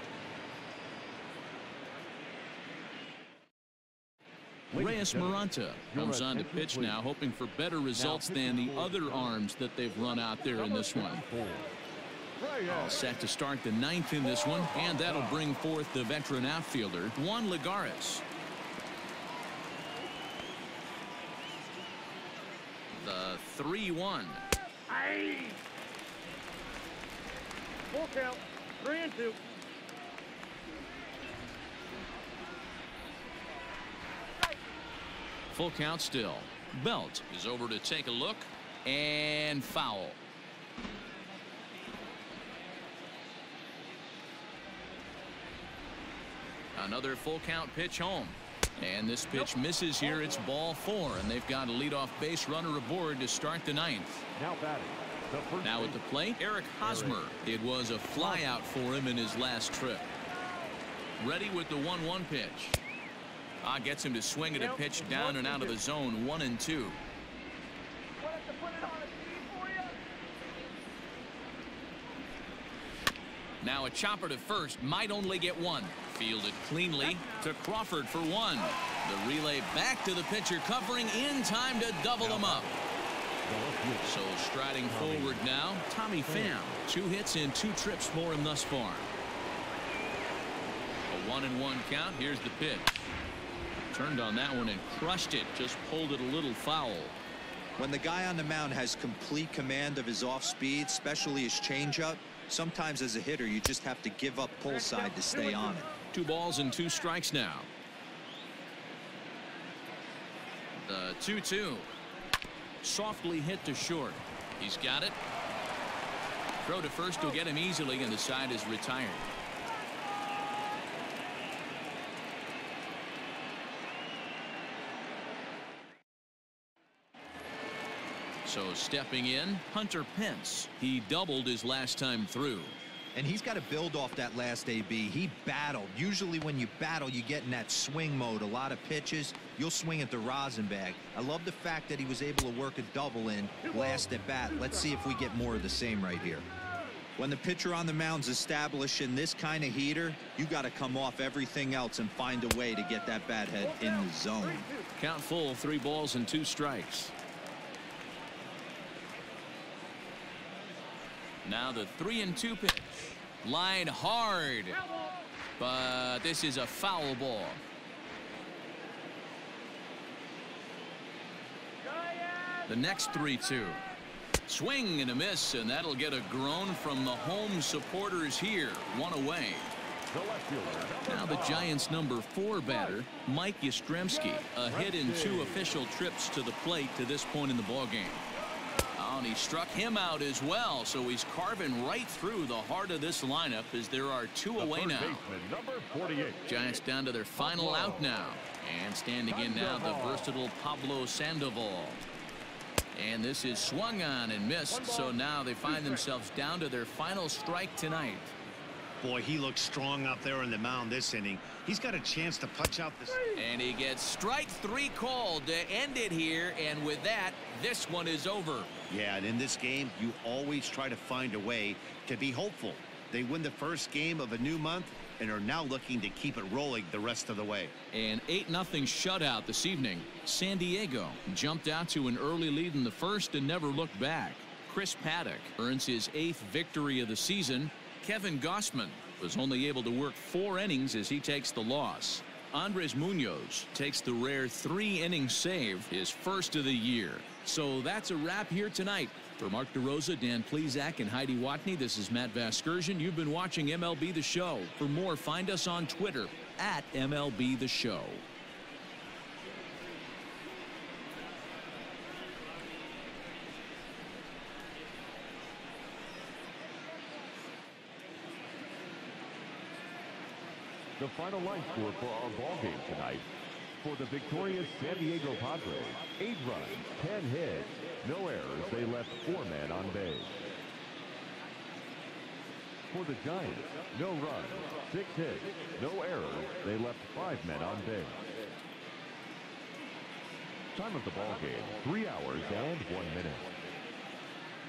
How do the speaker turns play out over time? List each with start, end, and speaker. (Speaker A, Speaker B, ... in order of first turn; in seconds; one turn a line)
Speaker A: 4.7-7.0
Speaker B: 4.8-11.2
Speaker A: 7.9-9.4
Speaker A: 10.6-11.7
Speaker A: 12.4-13.1
Speaker B: 12.7-18.2
Speaker A: 14.7-15.5
Speaker B: 23.0-24.4
Speaker C: 24.9-25.6
Speaker C: 27.9-29.4
Speaker B: 35.5-40.2
Speaker B: 46.8-54.2
Speaker C: 49.3-50.4
Speaker A: 54.4-56.0
Speaker B: 55.6-60.1
Speaker A: 56.8-57.3
Speaker A: 58.1-58.6
Speaker B: 61.2-62.8
Speaker B: 63.6-67.0
Speaker C: 64.5-65.8
Speaker C: 68.2-70.0
Speaker B: 73.6-82.7
Speaker C: 77.0-77.5
Speaker A: 82.2-82.7
Speaker A: 83.5-84.2
Speaker B: 84.0-89.1
Speaker A: 84.9-85.4
Speaker A: 86.2-86.6
Speaker B: 91.1-93.1
Speaker B: 93.9-97.2
Speaker D: 97.8-105.9
Speaker C: 104.7-105.9
Speaker B: 106.1-107.7
Speaker B: 110.8-111.9
Speaker B: 112.8-115.2
Speaker B: 116.7-119.3
Speaker B: 128.4-132.8
Speaker D: 133.2-146.5
Speaker D: 147.2-154.7
Speaker C: 153.7-154.9
Speaker B: 155.0-157.1
Speaker B: 161.4-164.8
Speaker C: 164.8-165.1
Speaker B: 165.6-167.6
Speaker B: 172.7-173.8
Speaker B: 174.5-179.7
Speaker A: 180.1-181.8
Speaker B: 181.0-188.2
Speaker A: 184.1-185.8
Speaker B: 189.0-195.2
Speaker A: 194.6-196.4
Speaker B: 196.5-202.0
Speaker A: 197.4-198.1
Speaker A: 199.3-200.3
Speaker B: 202.9-208.3
Speaker C: 204.7-206.0
Speaker E: 209.0-213.2
Speaker C: 213.1-213.4
Speaker B: 213.3-218.7
Speaker E: 218.9-227.7
Speaker B: 227.9-258.2
Speaker A: 271.0-273.3
Speaker A: 273.8-280.4
Speaker A: 282.9-288.2
Speaker A: 290.8-293.5